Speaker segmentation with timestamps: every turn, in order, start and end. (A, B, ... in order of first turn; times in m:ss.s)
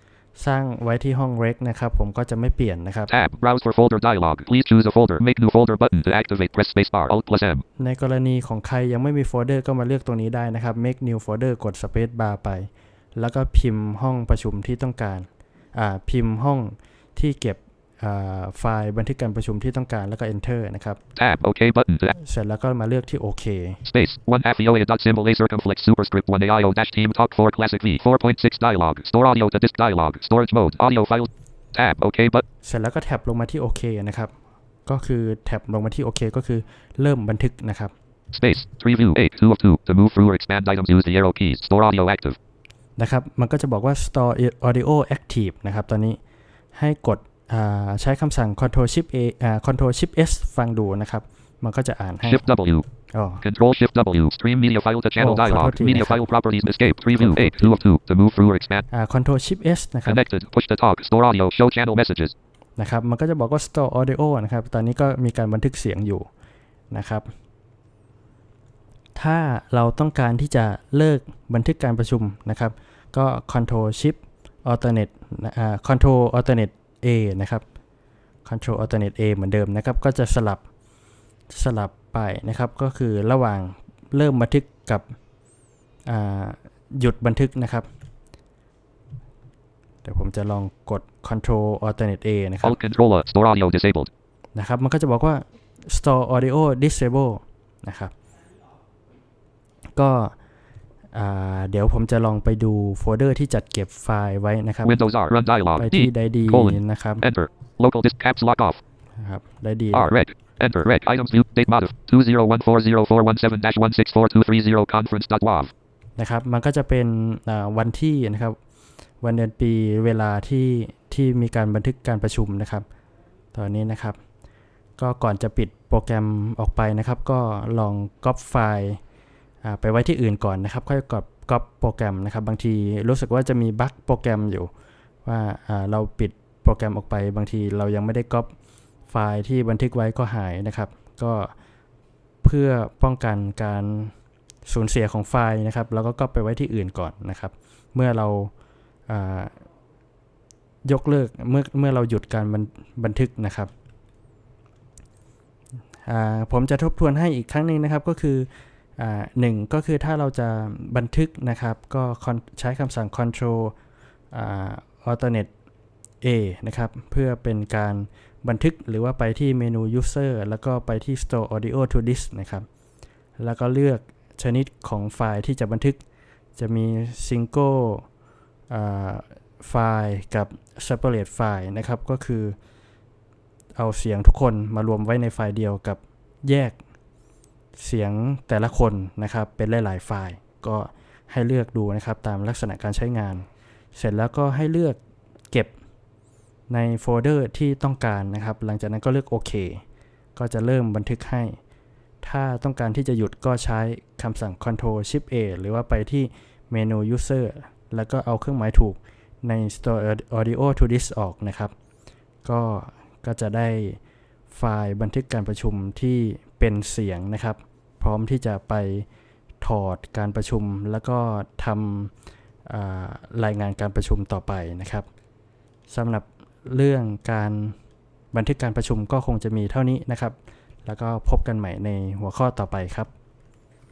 0:00.4-0:03.1 A
0:03.1-0:07.6 B
0:07.8-0:21.0 A
0:21.2-0:22.1 B
0:22.2-0:23.8 A
0:23.8-0:32.4 B
0:32.6-0:34.3 A
0:34.9-0:37.9 A
0:38.3-0:42.4 B
0:43.0-0:46.2 A
0:46.8-0:52.4 A
0:52.2-0:52.9 B
0:53.1-0:53.4 A
0:53.4-0:58.8 B
0:55.2-0:56.2 A
0:57.2-0:57.7 A
0:58.9-1:00.2 A
1:00.1-1:02.3 B
1:02.8-1:06.3 A
1:06.9-1:07.3 A
1:09.2-1:17.6 A
1:18.4-1:20.6 A
1:21.5-1:25.1 A
1:26.1-1:27.9 A
1:30.0-1:32.8 A
1:32.6-1:34.1 B
1:34.5-1:38.1 A
1:40.0-1:40.4 A
1:41.1-1:45.0 A
1:44.8-1:48.8 B
1:45.8-1:47.2 A
1:49.2-1:50.1 A
1:49.9-1:55.7 B
1:56.2-1:58.6 A
1:59.2-2:02.9 A
2:03.5-2:04.2 A
2:05.0-2:09.0 A
2:09.6-2:14.7 A
2:15.2-2:18.5 A
2:19.1-2:21.5 A
2:22.4-2:24.1 A
2:24.6-2:28.5 A
2:29.1-2:29.6 A
2:30.8-2:33.7 A
2:36.1-2:43.7 A
2:44.3-2:45.5 A
2:46.2-2:52.7 A
2:53.4-2:56.0 A
2:56.6-2:58.1 A
2:58.7-3:02.6 A
3:03.8-3:06.8 A
3:07.8-3:15.0 A
3:16.7-3:19.8 A
3:20.4-3:21.6 A
3:22.2-3:31.7 A
3:32.4-3:34.0 A
3:34.5-3:39.1 A
3:39.6-3:42.1 A
3:42.7-3:45.1 A
3:45.9-3:47.8 A
3:48.3-3:53.1 A